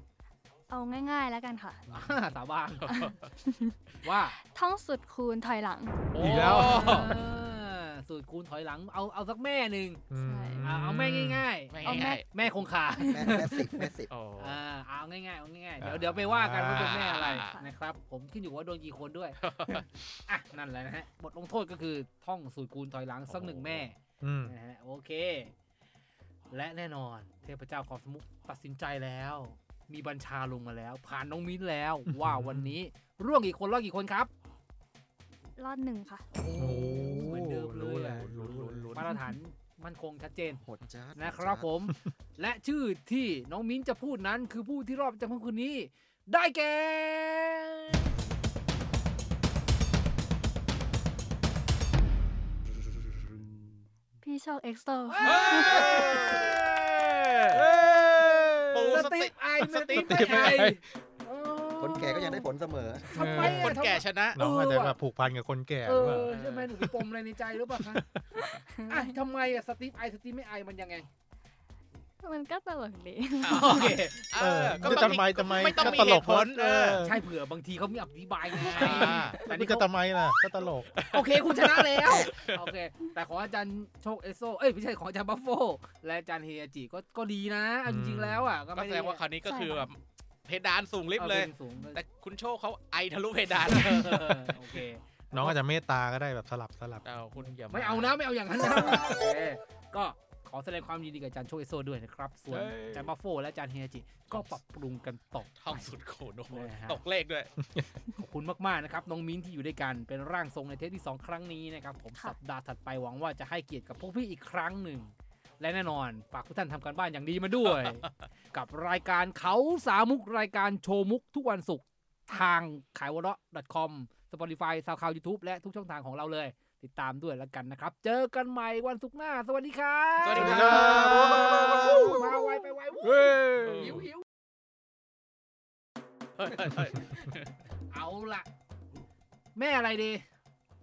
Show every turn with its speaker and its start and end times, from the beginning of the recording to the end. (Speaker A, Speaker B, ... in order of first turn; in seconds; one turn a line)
Speaker A: 0.7-1.8
Speaker B: 1.9-2.9
Speaker C: 2.8-3.2
Speaker A: 2.9-3.7
Speaker B: 4.0-4.3
Speaker A: 4.4-6.0
Speaker C: 6.1-7.2
Speaker D: 6.2-7.2
Speaker B: 6.5-10.0
Speaker D: 10.1-11.5
Speaker A: 10.2-10.7
Speaker B: 10.6-13.8
Speaker C: 11.7-12.2
Speaker A: 11.8-12.2
Speaker A: 13.0-13.4
Speaker E: 13.1-14.1
Speaker C: 14.1-14.6
Speaker B: 14.4-25.5
Speaker D: 15.8-17.2
Speaker C: 16.8-17.6
Speaker A: 17.3-17.7
Speaker C: 19.4-19.8
Speaker C: 23.3-23.8
Speaker D: 24.2-24.5
Speaker B: 26.5-34.3
Speaker D: 32.1-32.7
Speaker A: 35.6-36.2
Speaker B: 36.3-40.6
Speaker D: 36.5-39.1
Speaker C: 38.4-39.0
Speaker E: 40.6-41.7
Speaker B: 41.2-48.2
Speaker A: 54.2-56.4
Speaker B: 55.1-56.3
Speaker C: 55.2-57.6
Speaker D: 57.6-59.0
Speaker C: 58.7-60.6
Speaker B: 58.9-62.5
Speaker D: 59.9-61.0
Speaker E: 61.8-63.2
Speaker B: 63.0-65.0
Speaker D: 63.1-63.8
Speaker C: 63.4-64.4
Speaker D: 64.3-66.9
Speaker B: 65.8-71.1
Speaker C: 66.0-66.7
Speaker D: 67.8-68.2
Speaker A: 72.2-73.9
Speaker B: 73.4-76.2
Speaker C: 73.4-77.1
Speaker D: 74.4-77.2
Speaker B: 77.0-79.9
Speaker C: 78.6-79.4
Speaker D: 78.8-81.0
Speaker C: 80.9-82.6
Speaker B: 81.1-89.2
Speaker D: 87.8-88.6
Speaker C: 88.7-94.8
Speaker A: 89.4-89.9
Speaker B: 91.1-92.0
Speaker B: 93.7-95.6
Speaker D: 95.3-97.0
Speaker C: 97.0-99.1
Speaker B: 97.7-106.0
Speaker C: 102.5-103.1
Speaker C: 104.3-104.5
Speaker C: 105.5-107.5
Speaker B: 106.5-107.0
Speaker D: 107.6-107.9
Speaker B: 108.2-134.2
Speaker C: 130.2-131.0
Speaker D: 130.3-132.3
Speaker E: 130.6-132.2
Speaker D: 133.1-133.9
Speaker C: 133.5-134.1
Speaker C: 136.4-137.5
Speaker B: 137.9-138.5
Speaker B: 139.5-140.2